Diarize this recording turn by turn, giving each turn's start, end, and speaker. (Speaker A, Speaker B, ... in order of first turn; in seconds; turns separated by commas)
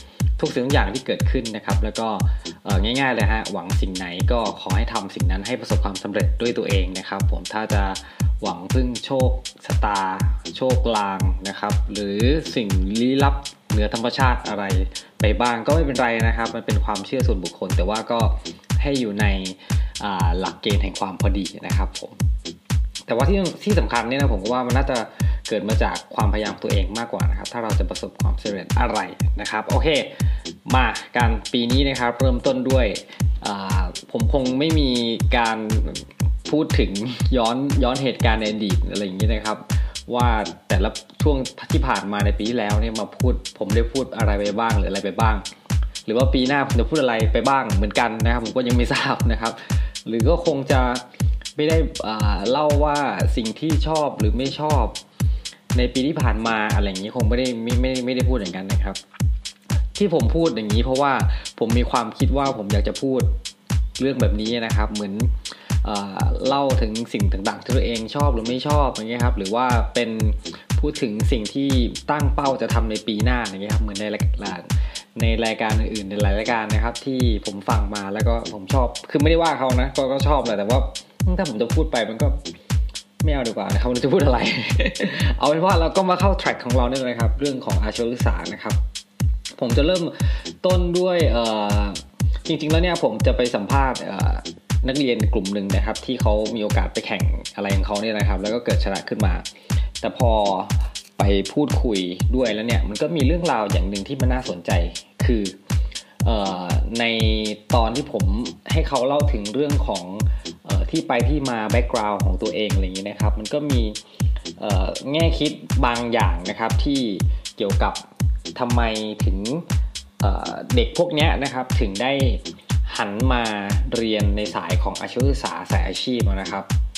Speaker A: 0.4-22.2, Speaker A: 23.1-30.1, Speaker A: 30.7-45.5, Speaker A: 46.1-51.0, Speaker A: 51.6-55.0, Speaker A: 55.7-59.0, Speaker A: 60.0-63.3, Speaker A: 64.0-65.3, Speaker A: 65.8-82.4, Speaker A: 83.2-88.8, Speaker A: 89.6-99.5, Speaker A: 100.0-105.5, Speaker A: 106.2-114.0, Speaker A: 114.6-118.0, Speaker A: 118.5-119.7, Speaker A: 120.2-126.7